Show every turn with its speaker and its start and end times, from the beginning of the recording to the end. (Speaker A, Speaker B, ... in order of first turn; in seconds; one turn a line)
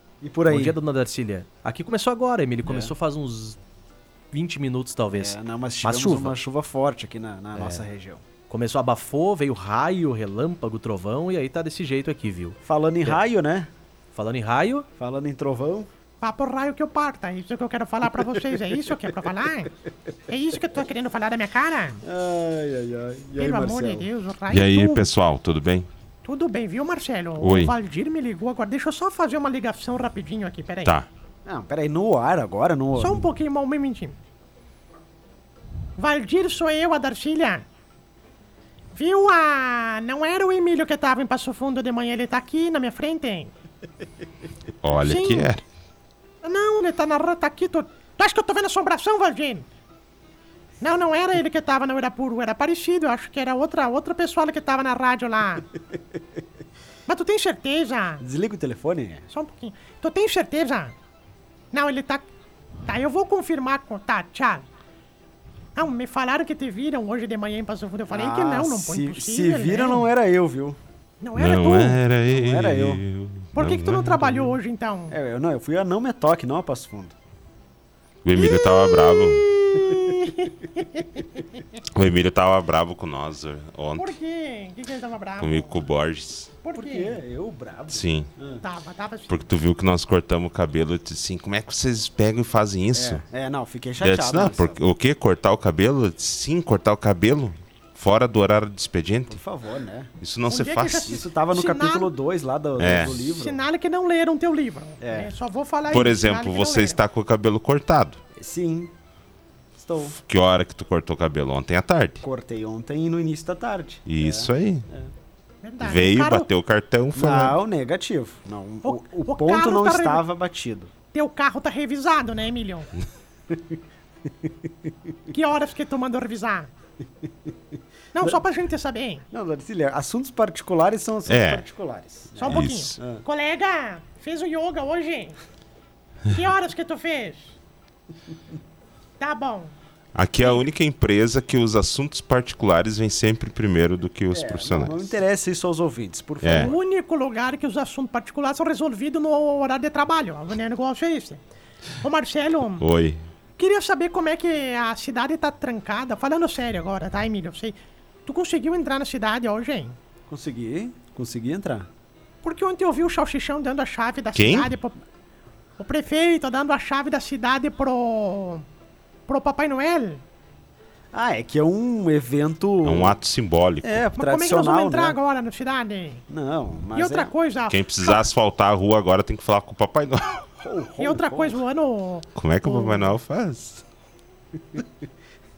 Speaker A: 0.2-0.8
Speaker B: 0.5-3.6
Speaker A: 2.6-2.9
Speaker B: 4.3-6.4
Speaker A: 5.1-8.2
Speaker B: 7.6-7.8
Speaker B: 8.5-13.2
Speaker A: 12.6-13.7
Speaker B: 14.1-14.9
Speaker A: 15.0-15.9
Speaker C: 16.2-19.7
Speaker C: 20.3-22.0
Speaker A: 22.0-24.1
Speaker C: 23.4-25.1
Speaker D: 24.5-25.9
Speaker C: 26.2-31.0
Speaker D: 27.4-27.7
Speaker A: 31.4-33.2
Speaker C: 33.0-34.2
Speaker C: 36.0-37.6
Speaker C: 38.9-43.5
Speaker D: 44.8-45.6
Speaker C: 45.0-45.5
Speaker C: 46.4-49.7
Speaker C: 50.8-55.7
Speaker C: 57.1-58.2
Speaker A: 58.2-59.3
Speaker C: 59.3-60.9
Speaker C: 61.7-62.2
Speaker C: 62.9-64.7
Speaker C: 65.8-70.1
Speaker A: 68.1-70.8
Speaker C: 71.2-72.0
Speaker D: 71.4-74.5
Speaker A: 72.3-73.0
Speaker C: 73.5-75.2
Speaker A: 75.1-77.2
Speaker D: 78.2-79.5
Speaker C: 78.4-81.4
Speaker A: 79.8-80.2
Speaker D: 81.9-84.2
Speaker C: 84.0-85.8
Speaker D: 85.4-86.5
Speaker C: 86.6-87.2
Speaker A: 86.8-88.6
Speaker D: 87.9-88.3
Speaker C: 88.6-89.4
Speaker D: 89.3-93.2
Speaker A: 92.9-94.9
Speaker D: 94.0-99.4
Speaker A: 99.3-100.1
Speaker D: 100.2-101.2
Speaker C: 100.5-102.1
Speaker A: 101.1-103.6
Speaker D: 102.8-103.2
Speaker C: 103.1-107.0
Speaker A: 105.0-105.3
Speaker D: 105.9-108.2
Speaker A: 108.4-108.9
Speaker A: 109.8-110.2
Speaker D: 110.2-112.2
Speaker A: 112.2-115.1
Speaker D: 114.1-114.9
Speaker C: 115.6-116.5
Speaker D: 115.8-117.6
Speaker A: 117.2-120.9
Speaker C: 118.8-120.2
Speaker C: 121.1-122.9
Speaker A: 123.5-123.8
Speaker A: 124.4-124.9
Speaker C: 125.3-126.7
Speaker C: 128.1-129.2
Speaker A: 129.3-133.2
Speaker D: 131.3-131.7
Speaker C: 132.4-135.4
Speaker D: 132.5-133.0
Speaker C: 136.3-137.6
Speaker C: 139.2-139.7
Speaker D: 140.2-145.1
Speaker A: 144.3-146.8
Speaker D: 146.4-146.7
Speaker C: 146.6-151.4
Speaker C: 152.0-152.9
Speaker D: 152.8-153.2
Speaker C: 153.6-160.0
Speaker A: 160.3-161.9
Speaker C: 162.4-165.0
Speaker D: 164.3-164.7
Speaker C: 165.8-168.7
Speaker C: 169.3-170.2
Speaker A: 171.1-173.2
Speaker D: 172.8-174.0
Speaker A: 173.8-175.2
Speaker C: 174.2-176.2
Speaker A: 176.3-177.3
Speaker C: 176.9-178.2
Speaker D: 177.7-180.4
Speaker A: 180.6-181.6
Speaker C: 181.0-183.1
Speaker D: 182.4-183.8